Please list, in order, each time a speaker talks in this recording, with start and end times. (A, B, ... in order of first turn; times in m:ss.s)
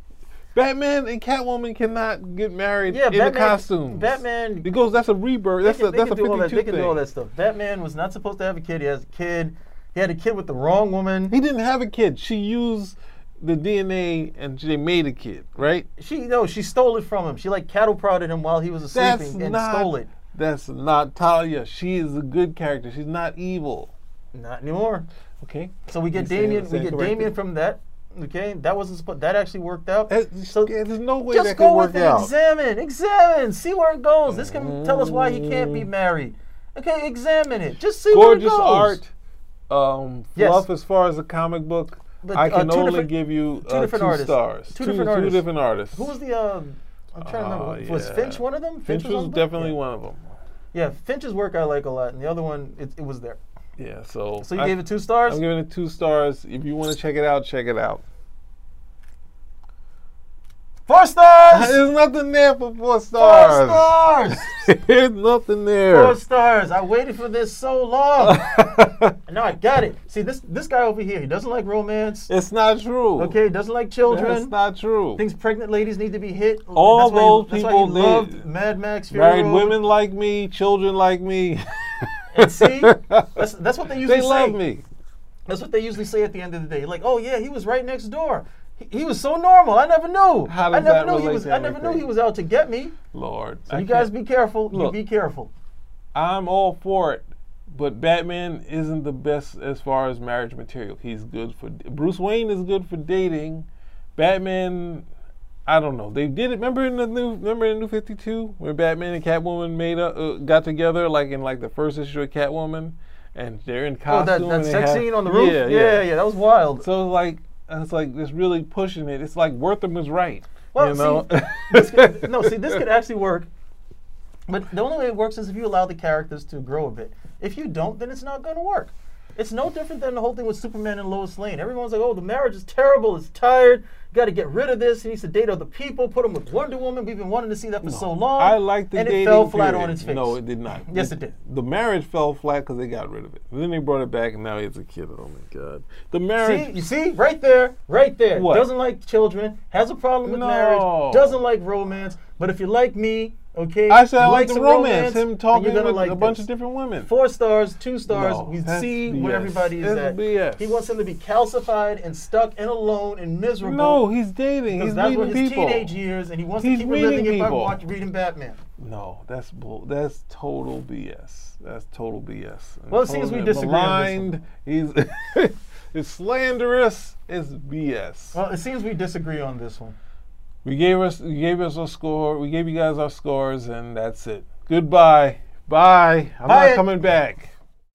0:00.5-0:07.0 A
0:02.9-0:04.7 B
0:05.6-0:11.3 B
0:11.3-0:15.9 A
0:16.0-0:20.1 B
0:18.9-0:23.9 A
0:24.3-0:25.1 B
0:25.4-0:27.3 A
0:25.9-0:30.7 B
0:30.1-0:32.3 A
0:31.3-0:39.0 B
0:34.3-0:35.9 A
0:38.1-0:39.1 A
0:39.7-0:46.1 A
0:40.4-0:40.7 B
0:42.2-0:43.1 B
0:43.6-0:49.8 B
0:47.2-0:50.4 A
0:50.7-0:53.4 B
0:53.8-0:58.0 A
0:54.4-0:55.4 B
1:00.9-1:01.8 B
1:01.5-1:03.9 A
1:03.2-1:04.5 B
1:04.4-1:06.2 A
1:05.9-1:08.4 B
1:08.2-1:09.1 A
1:09.3-1:12.3 B
1:12.3-1:13.4 A
1:13.2-1:14.5 B
1:14.1-1:15.2 A
1:15.2-1:19.8 B
1:16.8-1:18.4 A
1:19.1-1:23.4 A
1:22.3-1:24.6 B
1:24.0-1:24.8 A
1:25.5-1:33.0 B
1:30.5-1:32.1 A
1:33.1-1:34.1 A
1:33.7-1:35.5 B
1:34.7-1:35.0 A
1:36.1-1:45.0 A
1:45.7-1:56.1 A
1:54.1-1:56.8 B
1:56.8-2:02.8 A
2:00.7-2:03.5 B
2:04.5-2:21.3 B
2:17.8-2:26.9 A
2:26.4-2:36.4 B
2:28.3-2:28.7 A
2:30.3-2:31.4 A
2:33.9-2:37.1 A
2:37.0-2:44.0 B
2:38.1-2:40.9 A
2:43.6-2:46.0 A
2:44.7-2:48.6 B
2:46.6-2:47.8 A
2:48.8-2:58.4 A
2:52.9-2:54.3 B
2:58.3-3:00.0 B
3:00.6-3:07.5 A
3:06.4-3:06.8 B